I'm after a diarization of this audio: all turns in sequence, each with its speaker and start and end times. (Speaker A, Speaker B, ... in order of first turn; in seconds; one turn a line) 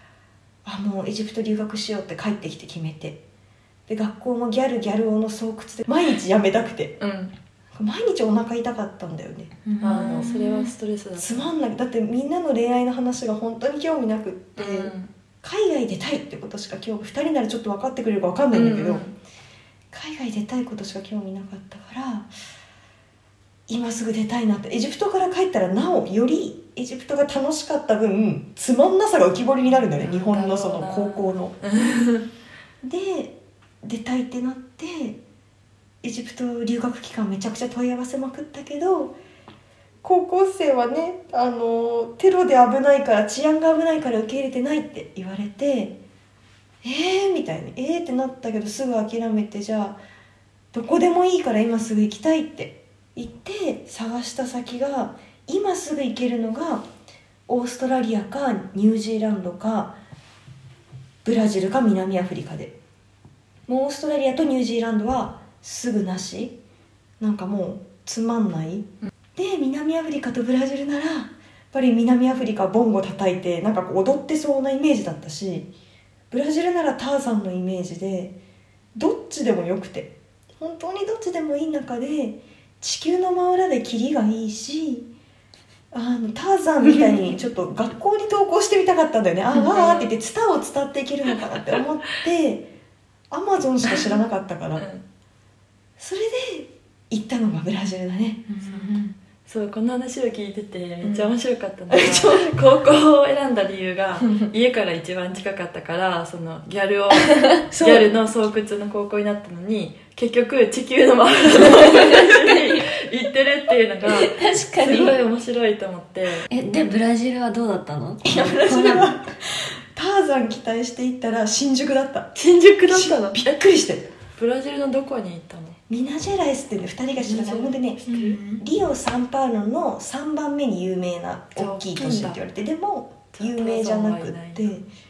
Speaker A: 0.6-3.2
Speaker A: 3.9-7.0
Speaker B: 7.0-7.3
Speaker A: 7.7-10.3
Speaker C: 9.7-10.7
Speaker B: 9.8-11.5
Speaker A: 11.2-19.0
Speaker B: 14.6-15.1
Speaker B: 18.5-19.1
Speaker A: 19.9-22.3
Speaker A: 23.7-31.6
Speaker B: 29.9-32.3
Speaker A: 32.8-35.2
Speaker A: 36.0-39.1
Speaker A: 40.0-46.0
Speaker A: 46.8-50.0
Speaker A: 50.7-56.9
Speaker A: 57.5-60.0
Speaker A: 61.2-62.7
Speaker A: 63.7-66.6
Speaker A: 67.2-75.7
Speaker A: 76.3-78.3
Speaker A: 78.9-85.1
Speaker A: 85.9-92.7
Speaker B: 89.6-90.1
Speaker A: 93.3-94.8
Speaker B: 94.8-95.0
Speaker A: 96.0-99.0
Speaker C: 98.5-99.1
Speaker B: 99.5-116.5
Speaker A: 101.0-101.3
Speaker A: 101.9-102.5
Speaker A: 107.7-108.2
Speaker C: 111.6-112.8
Speaker C: 114.1-115.2
Speaker C: 116.5-119.1
Speaker A: 118.2-122.3
Speaker B: 122.4-123.6
Speaker A: 122.9-124.1
Speaker B: 124.4-125.8
Speaker A: 125.9-134.9
Speaker B: 127.2-128.4
Speaker C: 128.1-128.6
Speaker B: 131.5-132.4
Speaker B: 133.3-134.6